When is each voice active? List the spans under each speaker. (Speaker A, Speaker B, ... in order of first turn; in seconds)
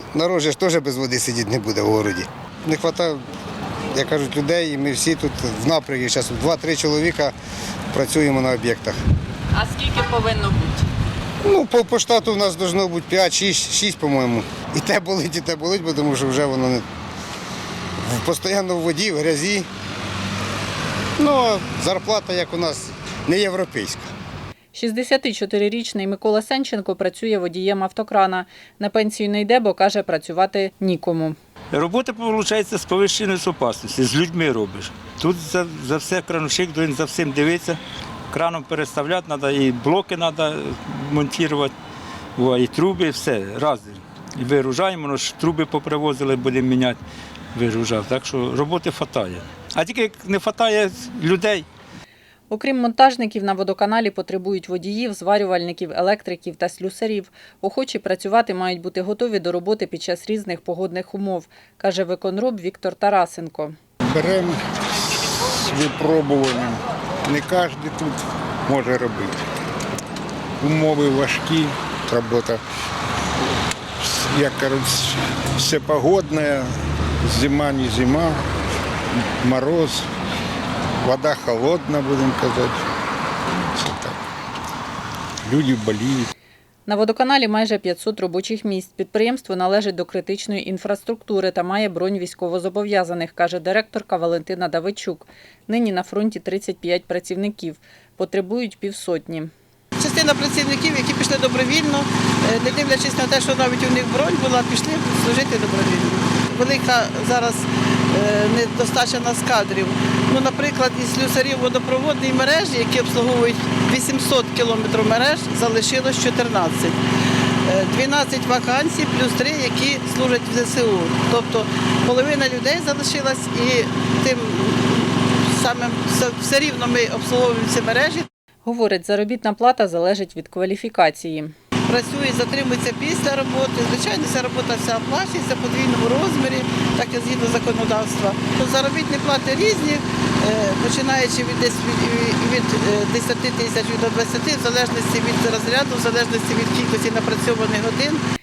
Speaker A: 0.1-3.2, 3.9-7.3, 7.9-9.0, 11.4-16.8, 18.0-19.7, 21.2-24.1
Speaker B: 9.5-10.8, 24.7-31.4, 52.5-63.7, 86.8-99.5, 128.6-131.5
Speaker C: 31.7-37.8, 38.3-41.7, 42.4-47.0, 47.5-51.6
Speaker D: 64.1-69.5, 70.6-72.6, 74.0-78.5, 79.4-80.1, 81.0-82.9, 83.6-84.2, 85.4-86.3
Speaker E: 100.0-117.0, 117.6-128.3, 131.9-148.2